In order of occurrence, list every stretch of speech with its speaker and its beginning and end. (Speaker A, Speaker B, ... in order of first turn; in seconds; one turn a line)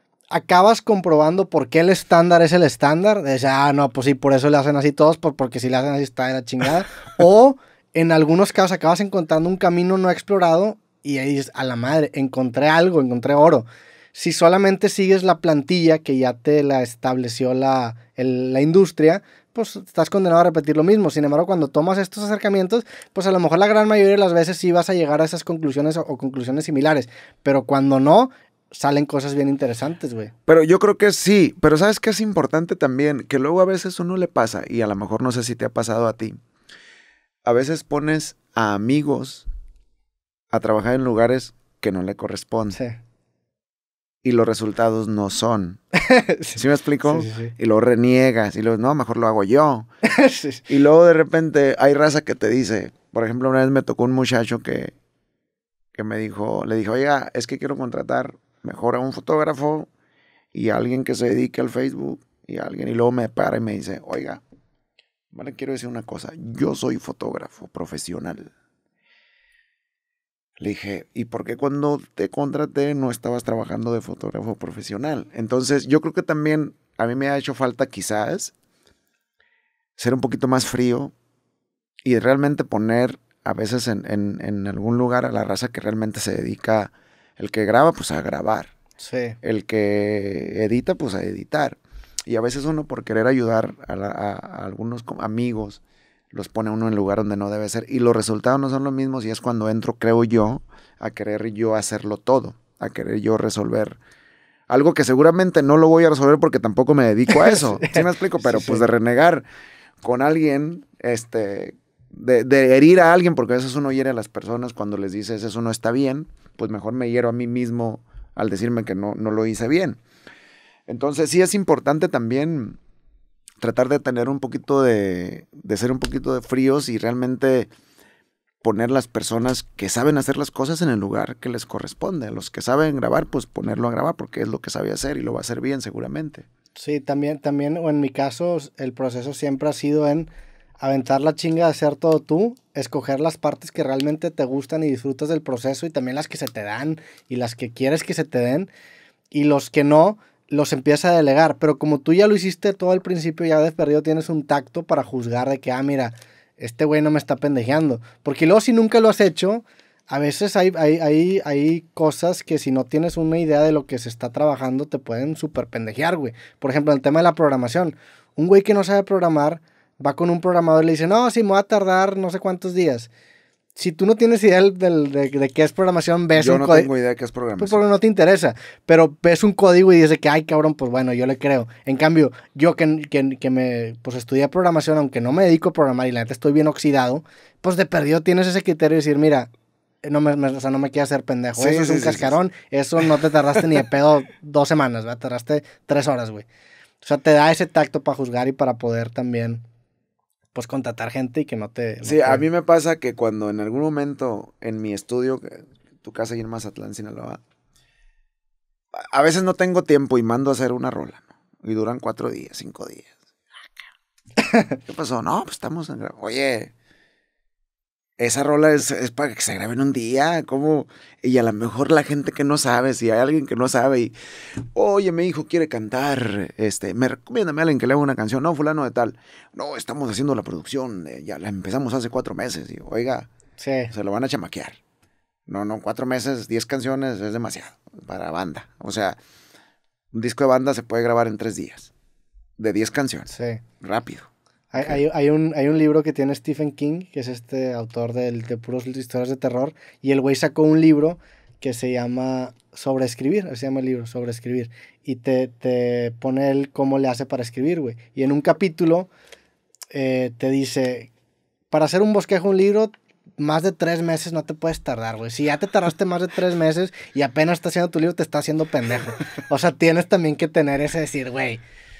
Speaker A: 0.3-30.3
Speaker B: 30.5-36.4
Speaker B: 37.5-39.5
Speaker B: 40.5-42.8
Speaker B: 44.2-45.8
Speaker A: 46.0-47.5
Speaker B: 46.5-49.9
Speaker A: 50.1-50.7
Speaker B: 50.7-54.9
Speaker B: 56.0-59.9
Speaker B: 60.5-64.4
Speaker B: 65.3-68.5
Speaker B: 70.6-78.5
Speaker B: 80.0-81.1
Speaker B: 82.0-88.7
Speaker A: 89.0-89.4
Speaker B: 89.4-104.0
Speaker B: 104.7-109.5
Speaker A: 107.3-108.8
Speaker B: 110.0-120.0
Speaker B: 120.9-122.8
Speaker B: 123.6-127.7
Speaker B: 128.6-136.5
Speaker A: 136.8-148.7
Speaker A: 149.3-173.1
Speaker A: 173.8-176.9
Speaker B: 176.4-177.8
Speaker A: 177.6-189.5
Speaker A: 190.0-196.5
Speaker B: 191.6-192.3
Speaker A: 197.0-199.6
Speaker A: 200.5-202.4
Speaker B: 202.0-207.4
Speaker B: 209.0-213.1
Speaker B: 214.8-216.7
Speaker B: 218.2-224.1
Speaker B: 224.7-233.3
Speaker A: 233.6-233.9
Speaker B: 233.9-234.8
Speaker B: 235.5-239.2
Speaker B: 240.1-241.9
Speaker B: 242.6-243.3
Speaker A: 243.3-243.6
Speaker B: 243.8-245.0
Speaker A: 244.7-259.1
Speaker A: 259.9-261.1
Speaker A: 261.7-271.6